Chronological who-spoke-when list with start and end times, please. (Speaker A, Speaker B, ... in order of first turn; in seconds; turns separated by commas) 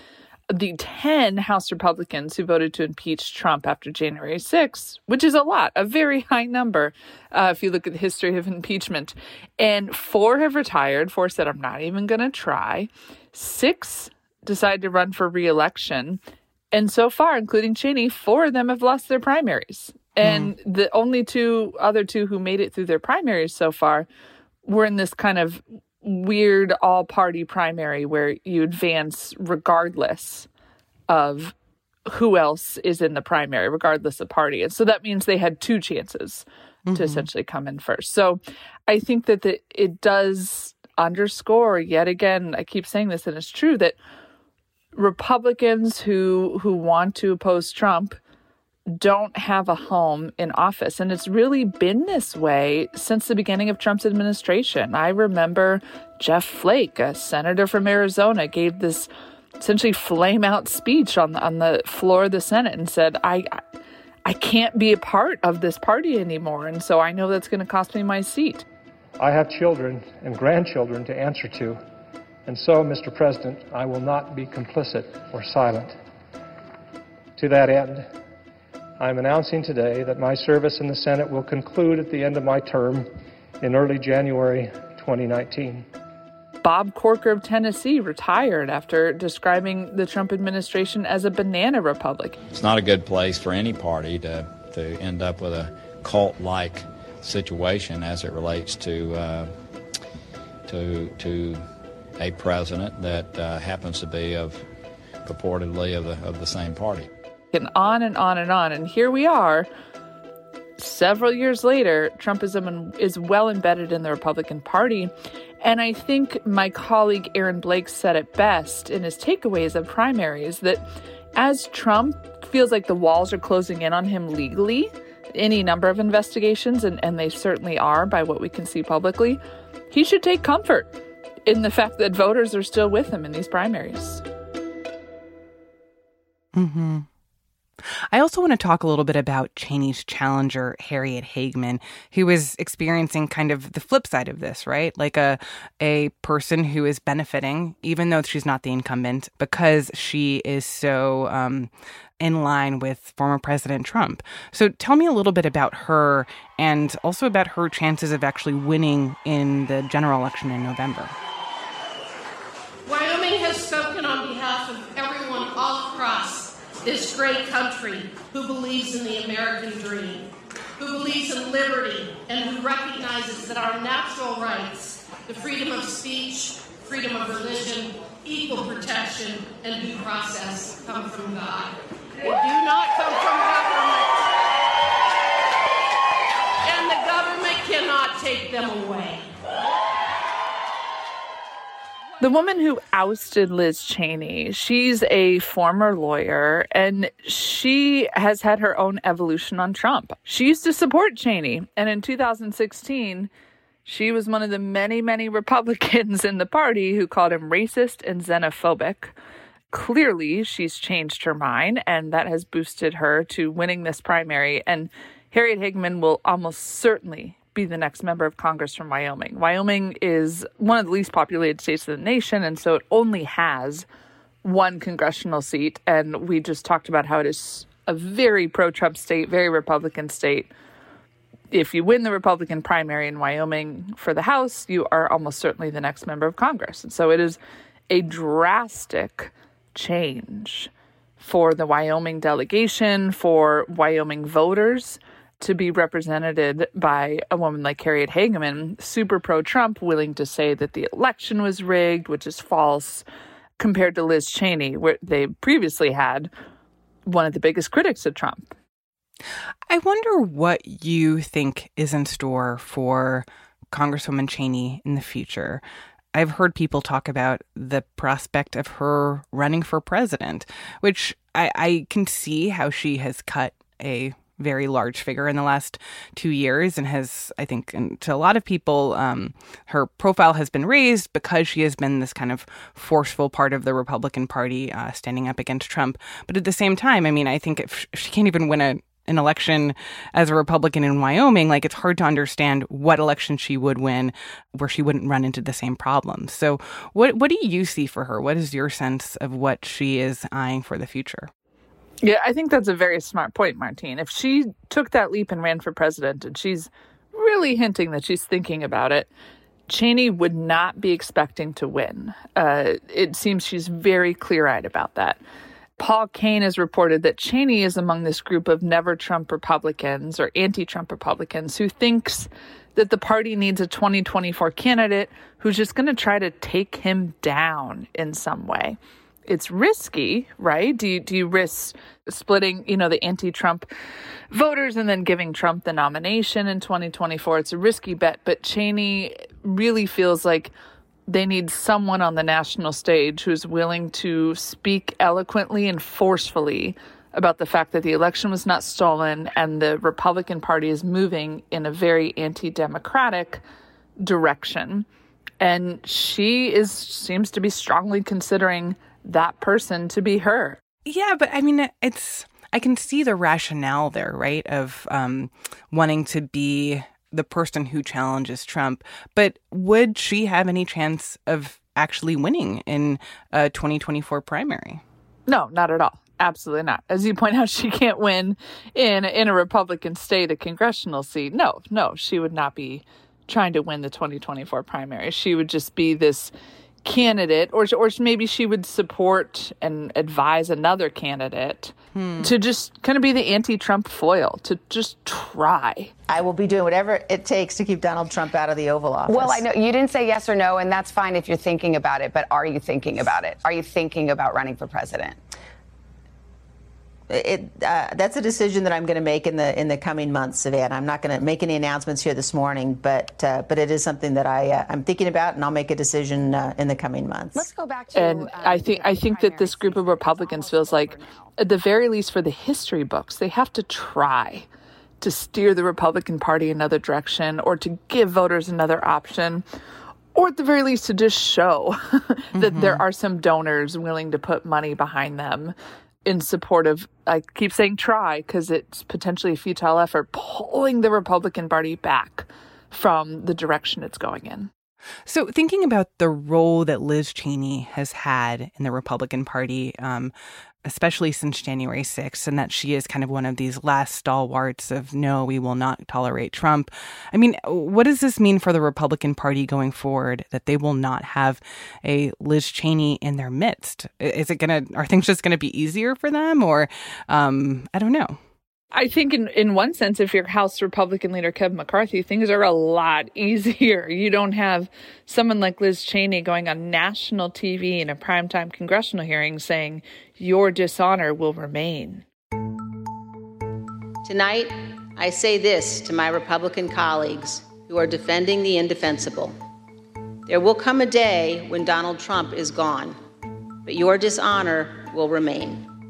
Speaker A: 0.5-16.2, Speaker A: 16.7-24.1, Speaker B: 20.2-20.5, Speaker A: 24.6-30.5, Speaker A: 31.1-31.6, Speaker A: 32.1-44.0, Speaker B: 36.9-37.3, Speaker A: 45.0-48.2, Speaker A: 48.9-63.6, Speaker A: 64.2-68.7, Speaker C: 69.2-71.8, Speaker C: 72.5-75.9, Speaker C: 77.4-78.1, Speaker C: 79.0-83.1, Speaker C: 83.6-85.8, Speaker A: 86.6-92.4, Speaker D: 92.5-99.6, Speaker D: 100.7-101.7, Speaker D: 102.2-104.7, Speaker D: 105.2-107.1, Speaker A: 107.5-109.7, Speaker A: 110.8-115.1, Speaker A: 115.6-120.8, Speaker A: 121.3-134.2, Speaker B: 136.6-137.1, Speaker B: 137.9-161.1, Speaker E: 162.9-184.2, Speaker E: 186.6-189.3, Speaker A: 192.2-203.3, Speaker A: 203.8-209.2, Speaker A: 209.7-223.9, Speaker A: 224.4-230.5, Speaker A: 231.5-237.4, Speaker A: 237.9-253.1, Speaker A: 253.6-256.3, Speaker A: 257.1-258.5, Speaker B: 259.7-265.6, Speaker B: 266.1-301.3, Speaker A: 302.0-309.1, Speaker A: 309.7-315.2, Speaker A: 315.8-333.7, Speaker A: 334.3-340.5, Speaker A: 341.1-353.4, Speaker A: 354.0-354.9, Speaker A: 355.4-360.6, Speaker B: 360.9-374.8, Speaker A: 375.3-386.3, Speaker A: 386.8-395.9, Speaker B: 391.9-392.3, Speaker F: 396.1-399.4, Speaker G: 399.1-405.2, Speaker F: 407.1-417.5, Speaker G: 417.3-421.3, Speaker A: 417.9-424.5, Speaker A: 425.0-429.4, Speaker A: 430.1-444.5, Speaker B: 432.4-432.8, Speaker B: 445.1-450.1, Speaker B: 450.6-468.2, Speaker A: 468.7-482.1, Speaker F: 484.0-489.4, Speaker F: 490.3-493.0, Speaker F: 493.6-495.6